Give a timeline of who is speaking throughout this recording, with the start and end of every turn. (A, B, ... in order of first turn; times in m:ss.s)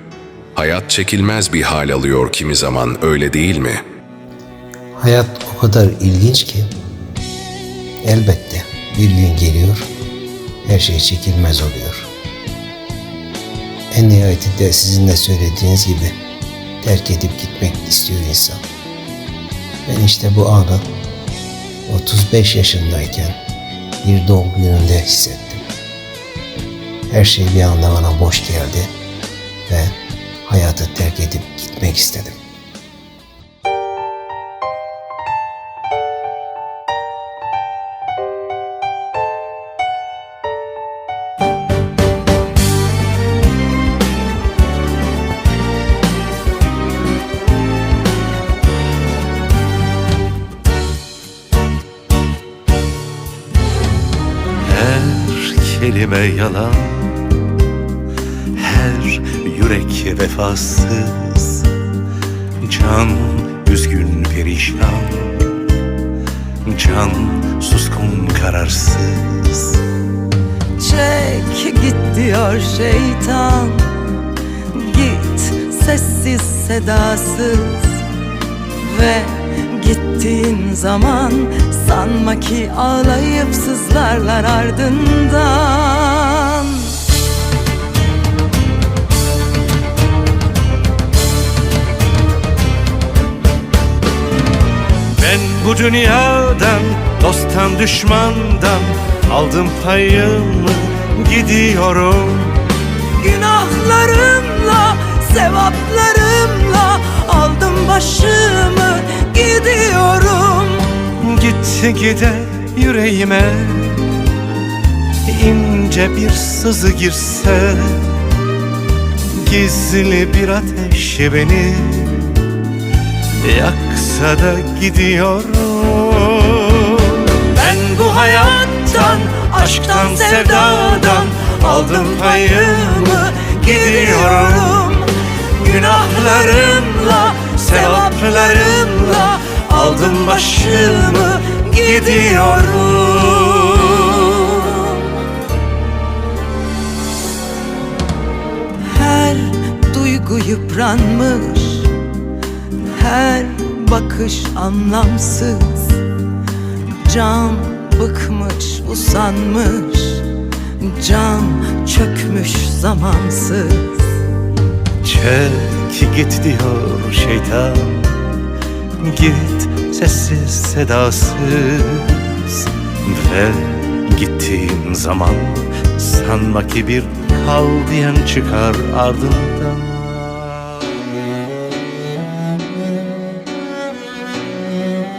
0:00.6-0:03.8 A
0:05.0-0:06.7 B
0:08.0-0:09.9 B
0:10.6-0:12.1 B
0:13.9-0:16.2 B
0:16.8-0:18.6 B
0:19.9-0:20.8 B
0:21.9-0:23.4 B
0:24.0-0:25.6 B
0:27.1-0:28.9 B
0:29.7-0:32.4 B
0:54.6-0:57.1 C
0:58.5-1:01.7 C
1:02.6-1:05.6 C
1:06.6-1:09.8 C
1:10.8-1:14.0 D
1:14.7-1:18.0 D
1:18.8-1:27.0 D
1:35.2-1:42.6 C
1:43.2-1:51.0 D
1:51.2-1:54.2 C
1:55.3-1:58.2 C
1:59.3-2:02.4 C
2:03.4-2:14.8 C
2:07.7-2:15.1 D
2:15.6-2:21.1 C
2:15.6-2:25.2 D
2:21.9-2:23.1 C
2:28.9-2:31.9 D
2:32.9-2:36.0 D
2:37.0-2:44.1 D
2:45.0-2:48.3 C
2:49.0-3:00.6 C